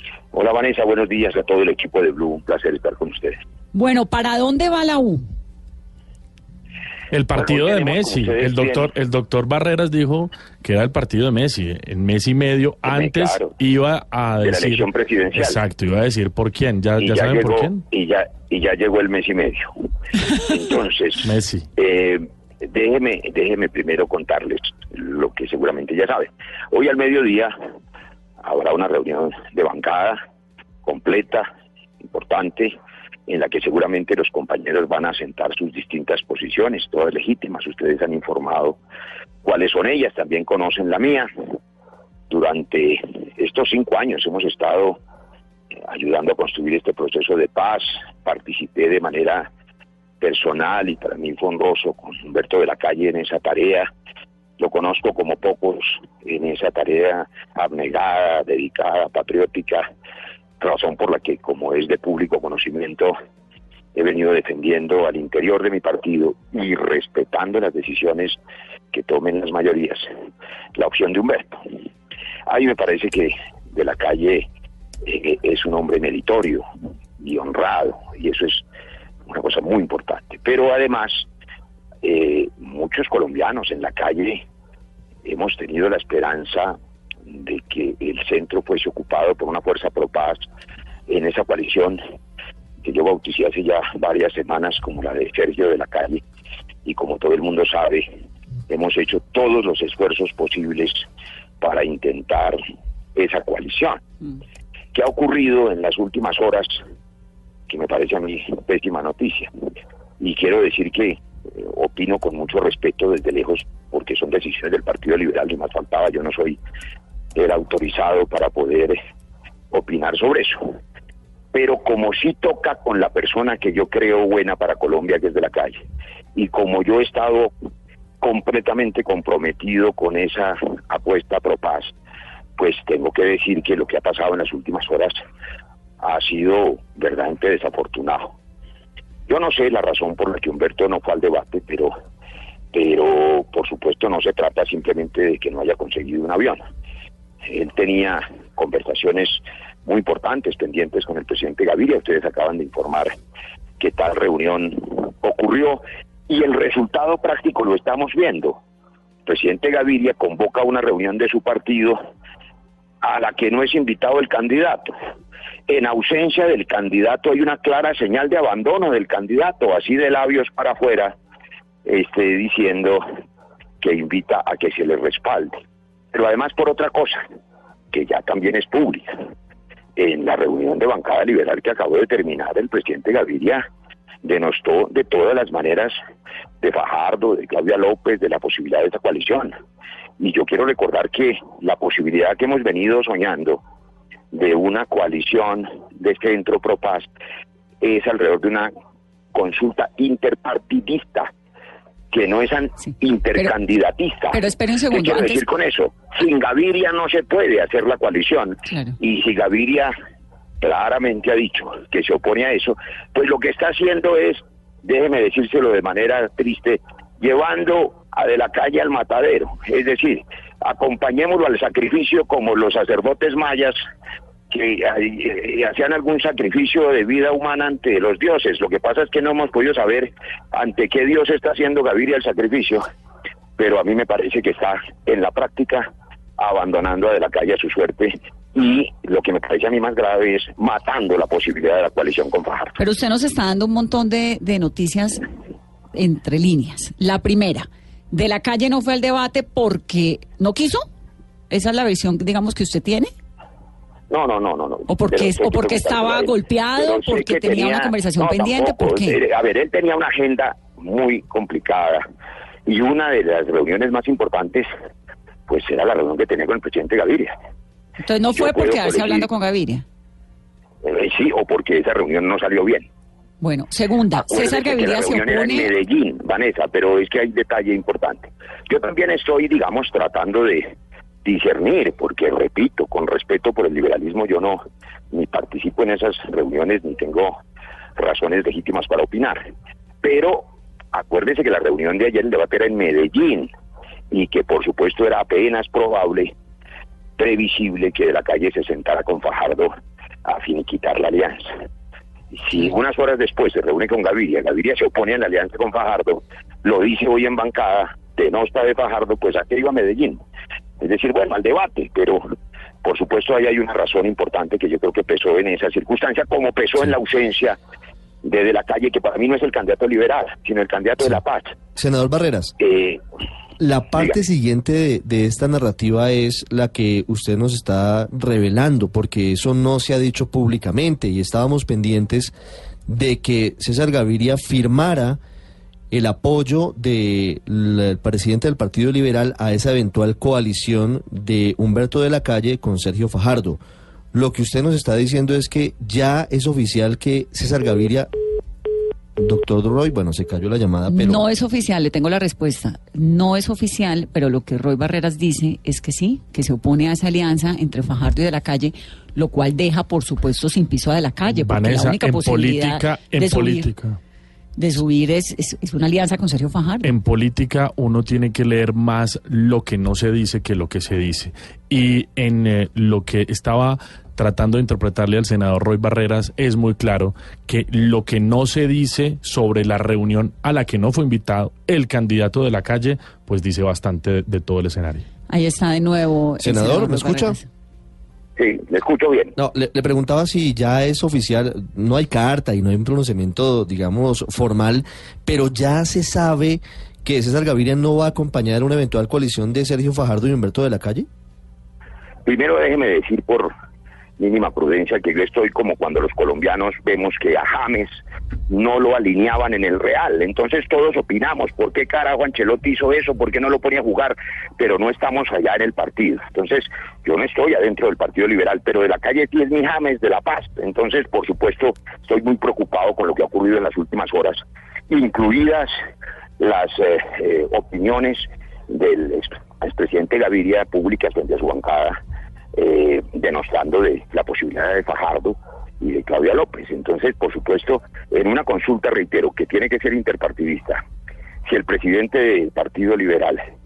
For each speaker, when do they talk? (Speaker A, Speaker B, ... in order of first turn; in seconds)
Speaker A: 0.3-3.4, 7.3-8.9, 12.8-13.6, 14.4-15.6, 17.0-19.7, 20.4-27.5, 28.4-30.2, 30.8-31.5, 32.0-32.8, 33.3-38.8, 39.4-41.3, 42.3-45.0, 45.9-49.5, 50.2-53.9, 54.6-59.9, 60.6-63.1, 63.9-68.4, 68.9-70.1, 70.7-71.6, 72.5-74.5, 75.0-76.6, 77.2-78.6, 79.3-81.3, 82.0-84.4, 85.2-90.4, 91.1-92.0, 92.8-96.2, 96.8-98.1, 98.7-101.1, 101.6-102.6, 103.1-104.0, 104.9-106.8, 107.7-109.5, 110.2-116.6, 117.3-119.0, 119.7-120.8, 121.5-125.8, 126.3-127.5, 128.2-131.9, 132.6-135.2, 136.0-138.3, 139.3-141.9, 142.7-146.6, 147.4-153.1, 153.8-158.6, 159.2-162.0, 163.0-164.9, 165.7-171.2, 171.8-173.0, 173.8-175.5, 176.1-177.2, 177.9-179.1, 179.9-183.6, 184.2-186.0, 186.6-189.5, 190.2-193.6, 194.3-197.1, 197.8-198.7, 199.3-201.3, 202.1-209.9, 210.6-223.8, 224.5-232.8, 233.6-235.9, 236.4-242.8, 254.1-262.0, 262.6-264.7, 265.5-267.4, 268.3-269.3, 270.8-272.9, 274.1-280.7, 281.2-287.4, 288.0-289.5, 290.0-293.5, 294.1-296.3, 297.2-299.7, 300.2-301.5, 302.3-310.2, 310.8-312.2, 312.8-317.6, 318.2-321.6, 322.6-323.0, 388.4-389.3, 402.2-403.5, 404.2-425.7, 426.4-432.0, 432.5-440.8, 441.4-443.4
Speaker B: 3.7-5.2, 204.3-205.4, 208.7-208.9, 242.8-245.2, 245.9-250.8, 251.5-253.1, 254.9-259.2, 268.0-269.8, 273.4-275.7, 350.9-363.7, 364.6-366.9, 385.3-387.4
Speaker C: 7.1-17.8, 21.2-21.6, 361.3-364.0, 366.8-385.0
Speaker D: 321.7-322.5, 323.6-332.3, 332.9-335.2, 335.9-343.6, 344.1-348.1, 349.2-351.2, 386.4-387.4, 389.4-401.1